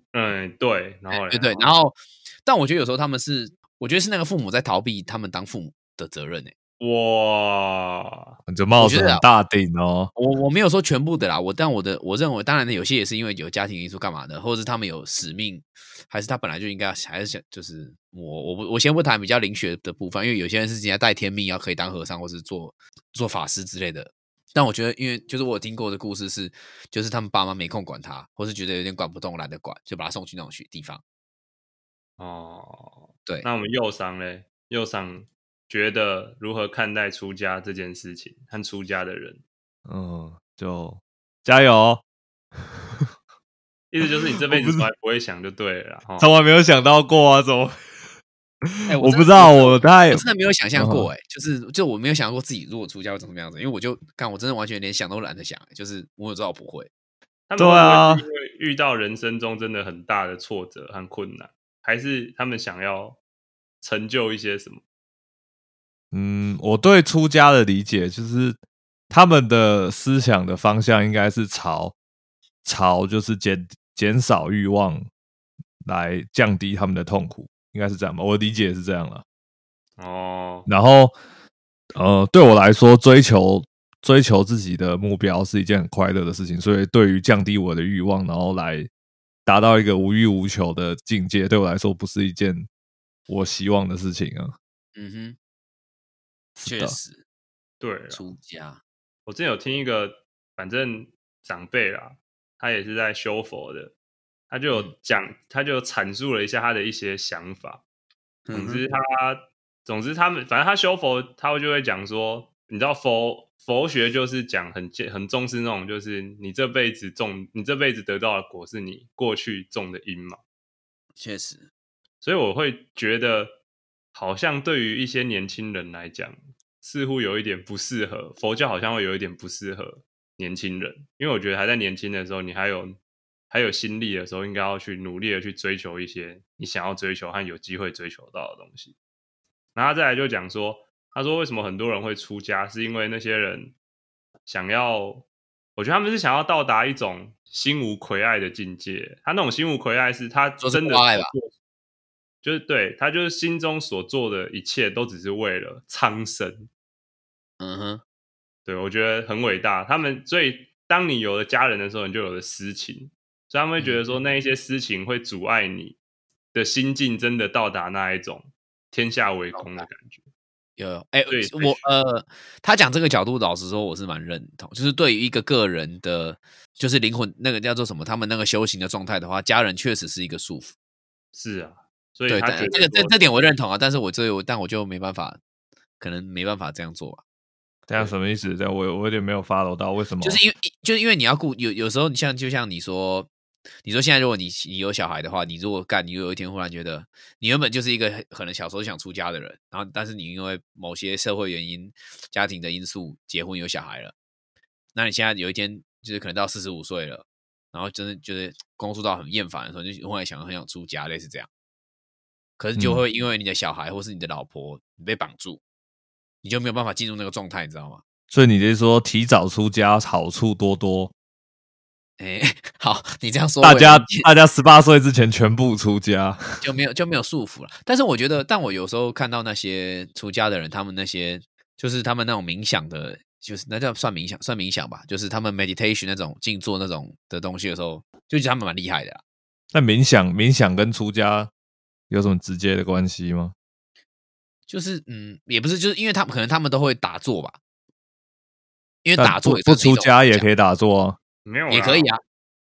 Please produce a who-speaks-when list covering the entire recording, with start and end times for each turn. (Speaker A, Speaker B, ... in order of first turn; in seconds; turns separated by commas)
Speaker A: 0.1-1.7, Speaker B: 1.1-6.5, Speaker A: 6.8-8.3, Speaker C: 8.5-10.1, Speaker B: 8.8-9.3, Speaker B: 10.2-31.0, Speaker A: 32.2-39.4, Speaker C: 39.9-42.0, Speaker A: 43.9-46.3, Speaker C: 44.2-44.8, Speaker C: 46.2-47.8, Speaker C: 48.7-50.2, Speaker B: 48.9-56.9, Speaker C: 50.8-51.1, Speaker A: 57.5-63.2, Speaker C: 57.6-58.2, Speaker A: 63.8-64.8, Speaker C: 66.1-68.6, Speaker C: 69.1-72.0, Speaker C: 72.6-75.1, Speaker C: 75.8-79.2, Speaker A: 80.0-80.7, Speaker C: 80.7-81.1, Speaker C: 82.0-88.9, Speaker C: 89.5-92.7, Speaker C: 93.3-94.5, Speaker B: 95.0-95.4, Speaker B: 96.6-97.2, Speaker C: 96.6-97.0, Speaker A: 97.8-98.2, Speaker B: 98.1-98.8, Speaker A: 99.3-103.9, Speaker A: 104.5-107.8, Speaker B: 108.5-108.8, Speaker A: 108.5-120.4, Speaker B: 121.2-121.7, Speaker A: 122.2-123.6, Speaker A: 124.1-133.0, Speaker A: 133.5-138.9, Speaker A: 139.8-143.8, Speaker A: 144.5-145.2, Speaker A: 145.8-151.5, Speaker B: 150.6-151.3, Speaker A: 152.4-156.7, Speaker B: 157.6-158.0, Speaker A: 158.7-166.0, Speaker B: 163.8-164.2, Speaker A: 166.5-170.3, Speaker B: 169.5-169.9, Speaker B: 170.8-180.7, Speaker A: 171.3-171.8, Speaker A: 181.3-183.2, Speaker B: 182.3-185.4, Speaker B: 186.0-187.2, Speaker C: 187.9-190.4, Speaker B: 190.2-193.3, Speaker B: 193.8-204.2, Speaker B: 204.9-211.5, Speaker B: 212.6-215.6, Speaker B: 216.4-218.0, Speaker C: 218.3-221.1, Speaker B: 222.2-224.3, Speaker C: 223.6-226.6, Speaker B: 226.6-239.2, Speaker C: 239.7-241.5, Speaker C: 242.1-243.5, Speaker B: 244.7-247.6, Speaker B: 249.0-250.5, Speaker C: 249.2-251.2, Speaker A: 251.4-252.1, Speaker B: 251.7-252.2